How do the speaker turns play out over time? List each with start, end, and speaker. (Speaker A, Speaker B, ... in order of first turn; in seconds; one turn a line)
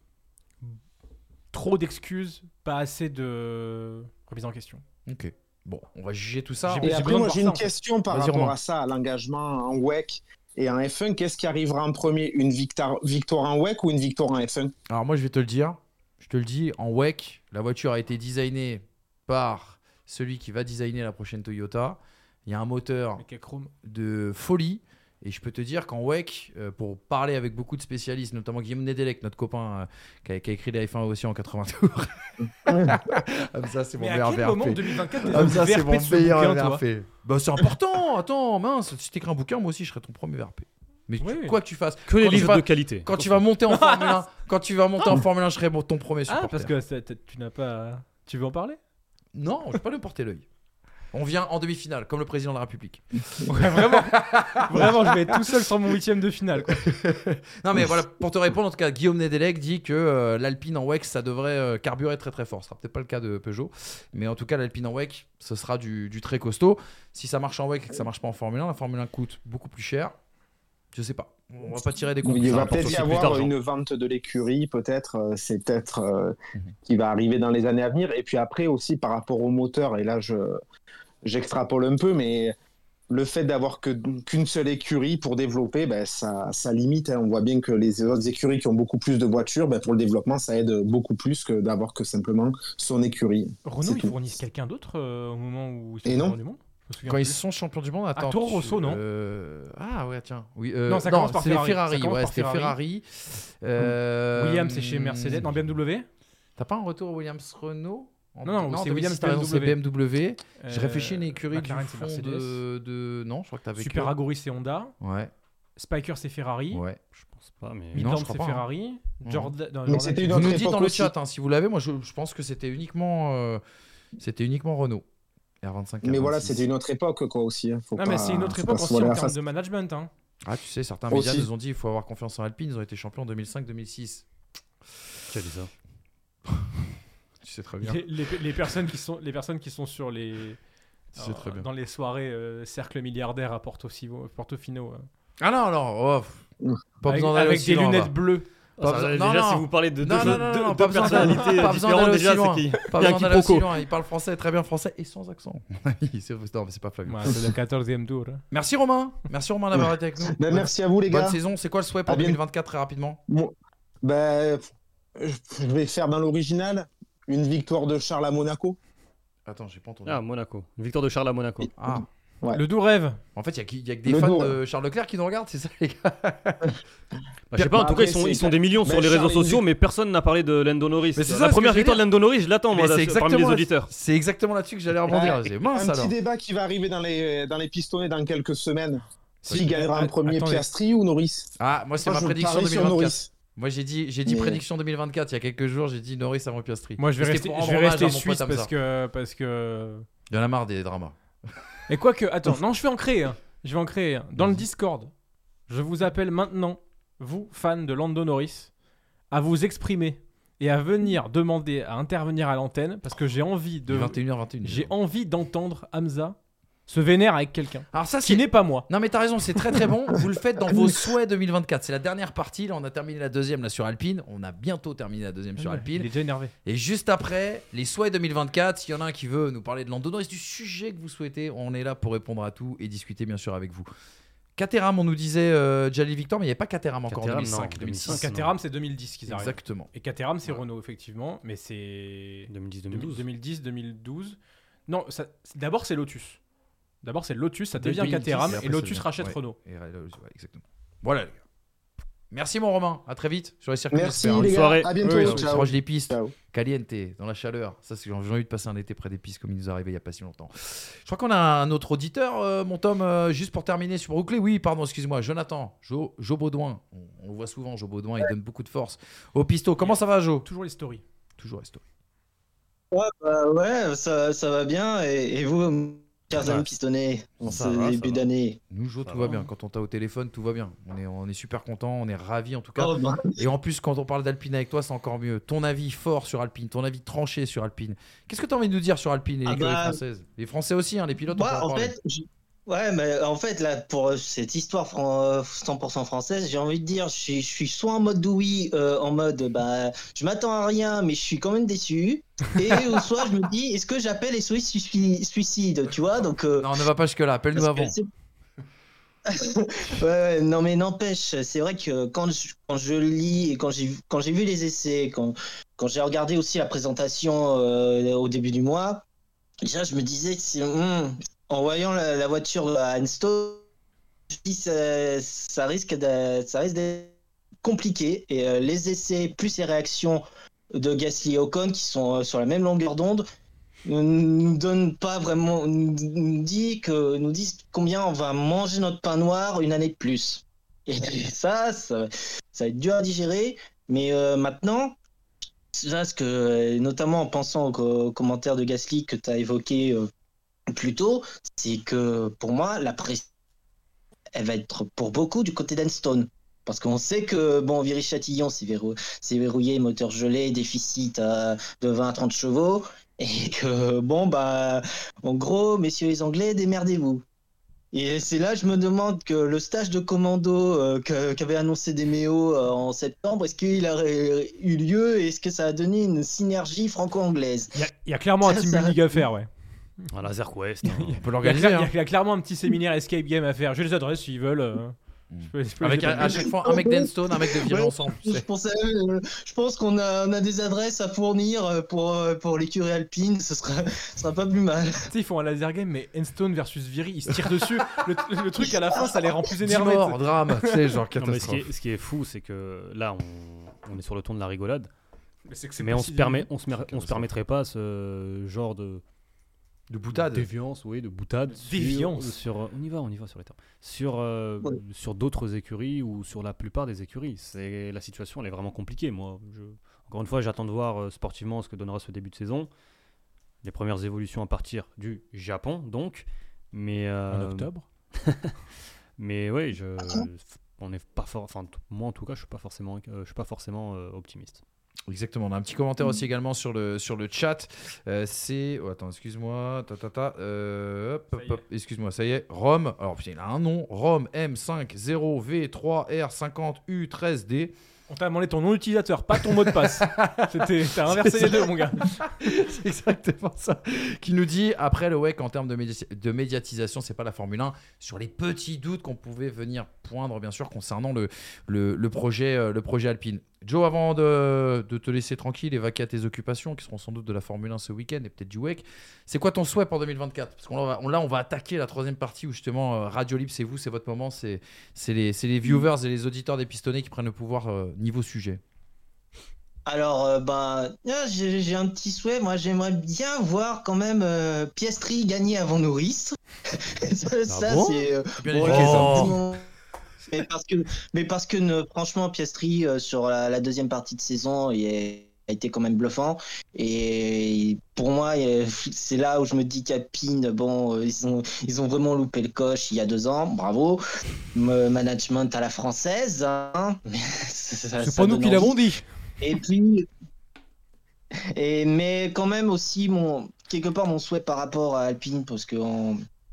Speaker A: 1.5-4.8
Speaker B: 5.1-7.1
Speaker A: 6.6-7.7
Speaker C: 6.8-14.7
Speaker B: 8.1-8.6
Speaker B: 14.9-23.2
Speaker A: 23.2-23.7
Speaker B: 23.8-46.7
Speaker C: 32.7-33.0
Speaker A: 34.0-36.8
Speaker A: 41.2-41.6
Speaker D: 42.1-43.3
Speaker A: 43.7-44.2
Speaker A: 46.3-48.8
Speaker B: 49.4-50.5
Speaker B: 51.1-55.1
Speaker A: 53.5-56.9
Speaker B: 56.8-70.2
Speaker B: 70.9-73.5
Speaker C: 72.2-76.3
Speaker D: 72.3-73.5
Speaker C: 76.9-80.6
Speaker C: 81.2-82.5
Speaker C: 83.1-94.2
Speaker A: 93.7-97.4
Speaker C: 96.1-96.4
Speaker B: 97.0-105.7
Speaker A: 98.2-99.0
Speaker A: 100.9-102.8
Speaker A: 104.3-106.1
Speaker B: 106.6-114.1
Speaker A: 108.5-109.8
Speaker A: 110.6-112.6
Speaker A: 113.8-115.0
Speaker B: 115.0-115.3
Speaker A: 115.8-116.8
Speaker B: 116.7-117.0
Speaker D: 117.2-118.0
Speaker B: 117.9-118.7
Speaker A: 117.9-120.6
Speaker B: 119.2-119.5
Speaker C: 119.9-121.1
Speaker B: 120.3-123.6
Speaker B: 124.2-125.0
Speaker B: 125.6-126.6
Speaker C: 126.0-129.4
Speaker A: 128.0-130.1
Speaker B: 130.4-134.3
Speaker C: 131.1-131.5
Speaker D: 135.3-135.7
Speaker B: 137.4-138.8
Speaker A: 137.8-140.6
Speaker A: 141.1-145.1
Speaker B: 141.2-141.7
Speaker B: 145.4-146.5
Speaker B: 147.0-148.2
Speaker A: 147.1-148.5
Speaker D: 148.8-153.7
Speaker B: 148.8-157.5
Speaker A: 150.2-151.5
Speaker A: 157.1-158.5
Speaker B: 158.5-163.2
Speaker C: 159.7-161.4
Speaker C: 162.1-162.4
Speaker C: 163.3-163.5
Speaker C: 164.0-168.8
Speaker B: 169.5-170.2
Speaker D: 170.1-171.7
Speaker B: 171.8-172.1
Speaker C: 171.9-172.6
Speaker A: 172.5-173.2
Speaker B: 173.4-176.8
Speaker C: 174.1-174.6
Speaker D: 177.5-183.9
Speaker C: 177.6-179.6
Speaker B: 181.2-182.1
Speaker B: 182.7-186.1
Speaker C: 185.1-193.3
Speaker A: 189.4-190.7
Speaker B: 191.6-198.7
Speaker C: 194.3-194.6
Speaker A: 197.0-200.1
Speaker B: 200.3-201.8
Speaker A: 201.9-205.1
Speaker B: 204.4-204.7
Speaker A: 205.7-208.7
Speaker A: 209.3-216.4
Speaker B: 213.9-214.9
Speaker A: 216.9-218.9
Speaker B: 217.9-226.1
Speaker A: 225.6-226.5
Speaker B: 226.7-233.9
Speaker B: 234.6-238.3
Speaker D: 237.1-238.5
Speaker A: 238.1-246.4
Speaker B: 239.3-239.9
Speaker D: 242.5-243.2
Speaker A: 247.0-249.6
Speaker B: 247.8-251.4
Speaker B: 252.3-270.5
Speaker C: 253.9-256.3
Speaker D: 254.3-254.9
Speaker A: 255.0-255.4
Speaker A: 269.8-271.0
Speaker B: 271.4-271.8
Speaker E: 272.9-278.6
Speaker B: 277.4-278.1
Speaker D: 277.5-277.9
Speaker B: 278.7-291.9
Speaker E: 282.8-283.4
Speaker E: 289.5-290.0
Speaker E: 291.3-306.7
Speaker B: 306.6-307.9
Speaker E: 307.6-308.1
Speaker E: 309.3-319.0
Speaker E: 319.7-323.6
Speaker E: 324.3-327.1
Speaker E: 327.6-330.2
Speaker E: 330.8-333.2
Speaker E: 333.9-345.0
Speaker E: 345.8-350.1
Speaker E: 350.7-353.2
Speaker E: 354.4-367.2
Speaker E: 367.9-377.8
Speaker A: 377.8-379.5
Speaker E: 378.4-379.0
Speaker D: 380.1-381.2
Speaker A: 380.9-386.6
Speaker B: 381.2-381.9
Speaker B: 385.3-388.5
Speaker E: 386.7-395.1
Speaker A: 395.1-400.7
Speaker B: 399.5-401.7
Speaker D: 401.2-404.9
Speaker A: 405.5-406.5
Speaker D: 405.8-409.0
Speaker B: 406.8-407.3
Speaker B: 409.9-410.5
Speaker D: 410.1-422.7
Speaker A: 411.6-412.4
Speaker D: 423.6-428.5
Speaker A: 427.3-427.9
Speaker D: 429.2-434.6
Speaker B: 435.1-447.7
Speaker A: 441.3-441.6
Speaker A: 448.1-452.2
Speaker B: 449.3-478.6
Speaker E: 479.9-486.4
Speaker E: 486.9-489.6
Speaker B: 487.5-487.9
Speaker B: 488.4-489.4
Speaker D: 488.8-489.2
Speaker E: 490.3-504.0
Speaker E: 504.5-508.8
Speaker A: 508.0-509.1
Speaker E: 509.4-510.1
Speaker E: 511.6-516.2